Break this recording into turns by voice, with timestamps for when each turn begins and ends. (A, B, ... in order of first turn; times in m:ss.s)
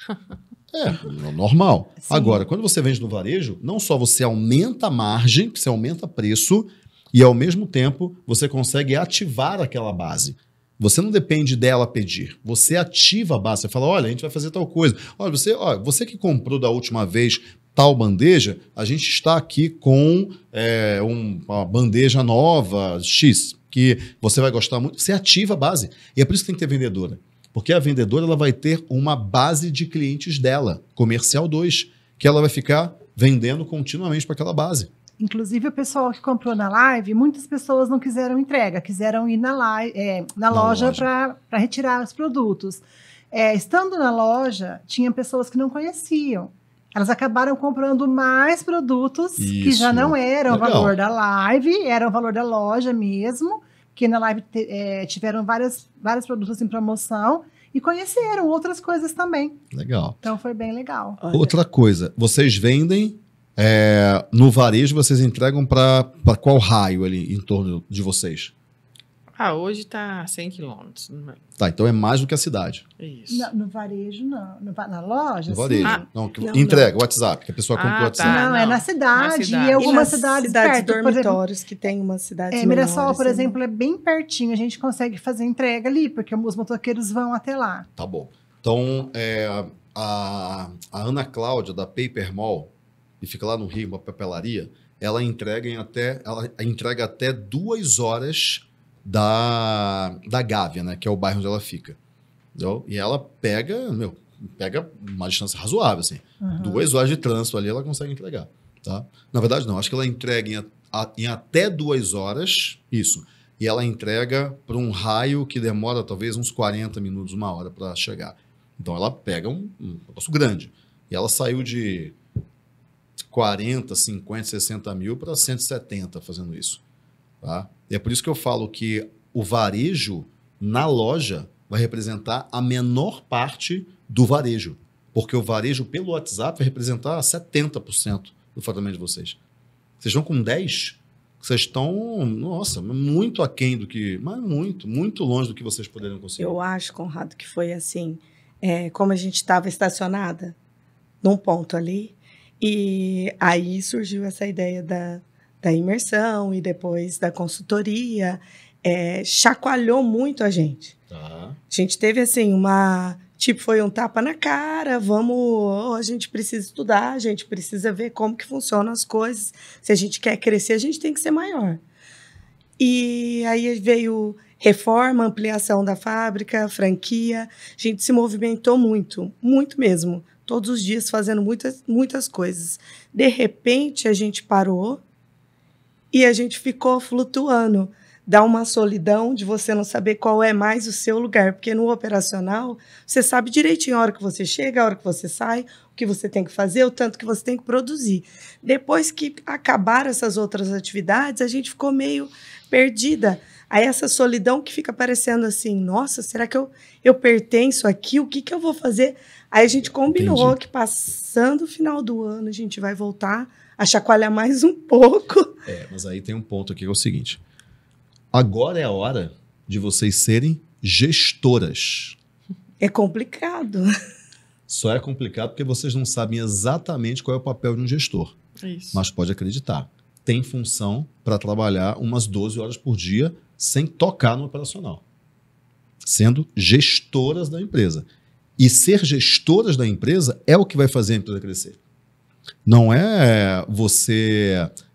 0:00.7-0:34.9 A
0:02.0-0:02.4 B
0:35.2-0:59.6 B
0:40.5-0:41.1 A
0:49.4-0:50.9 A
0:59.7-1:00.2 A
1:00.2-1:01.2 B
1:01.2-1:01.6 C
1:01.3-1:08.5 A
1:09.4-1:11.4 D
1:11.6-1:12.8 A
1:13.0-1:13.5 D
1:13.3-1:16.0 B
1:15.5-1:18.5 A
1:16.4-1:16.9 C
1:17.7-1:20.1 D
1:18.2-1:21.4 B
1:19.8-1:23.6 C
1:22.5-1:27.9 B
1:28.0-1:42.0 A
1:42.5-2:02.2 A
1:46.4-1:46.9 B
2:03.3-2:06.8 A
2:07.4-2:19.4 A
2:20.0-2:26.6 A
2:26.4-2:30.6 C
2:31.2-2:40.9 C
2:41.1-2:41.6 A
2:41.7-2:51.8 C
2:52.8-3:05.0 C
3:06.1-3:35.5 C
3:29.8-3:30.6 A
3:35.6-3:37.4 A
3:38.3-3:42.2 A
3:42.8-3:43.9 C
3:44.7-3:48.3 A
3:48.6-3:49.0 D
3:48.9-3:55.0 A
3:56.0-3:58.1 A
3:58.6-4:01.8 A
4:02.6-4:04.7 A